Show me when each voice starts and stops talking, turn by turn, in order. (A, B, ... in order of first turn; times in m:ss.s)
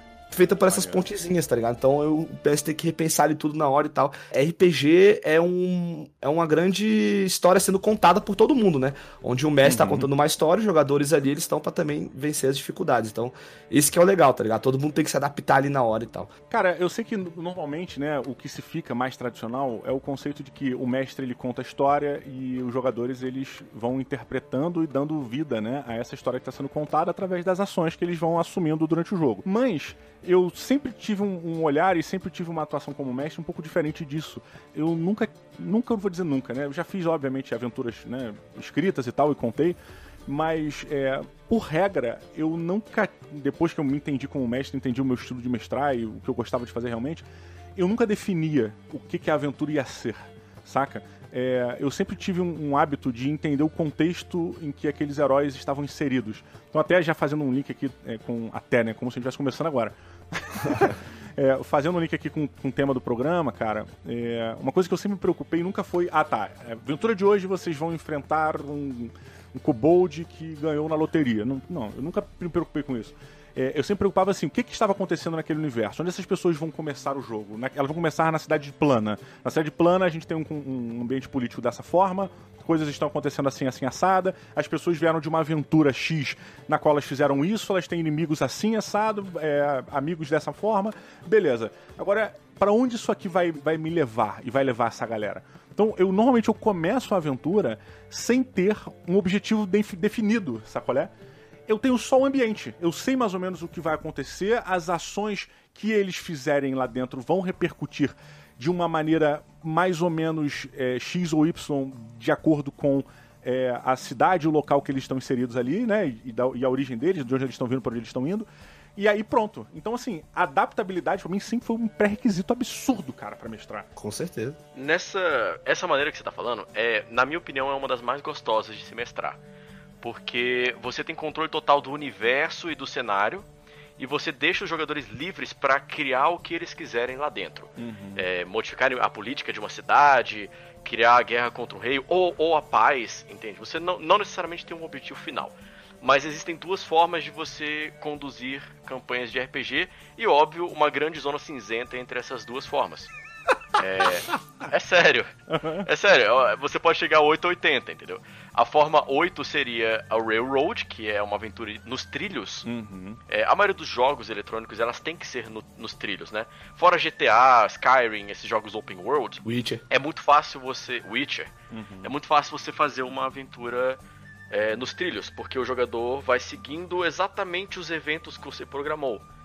0:00.3-0:16.3 A
0:00.7-0:01.0 B
0:09.6-0:10.1 B
0:16.5-1:41.1 B
1:41.7-2:03.9 B
2:04.0-2:04.6 A
2:04.7-2:09.4 C
2:10.0-2:13.4 C
2:14.0-2:33.1 C
2:17.8-2:18.2 B
2:33.8-2:42.7 C
2:35.5-2:35.9 B
2:42.6-2:43.2 B
2:43.3-2:51.5 C
2:49.4-2:49.8 A
2:51.7-2:52.1 B
2:52.0-2:54.0 C
2:54.5-2:59.2 C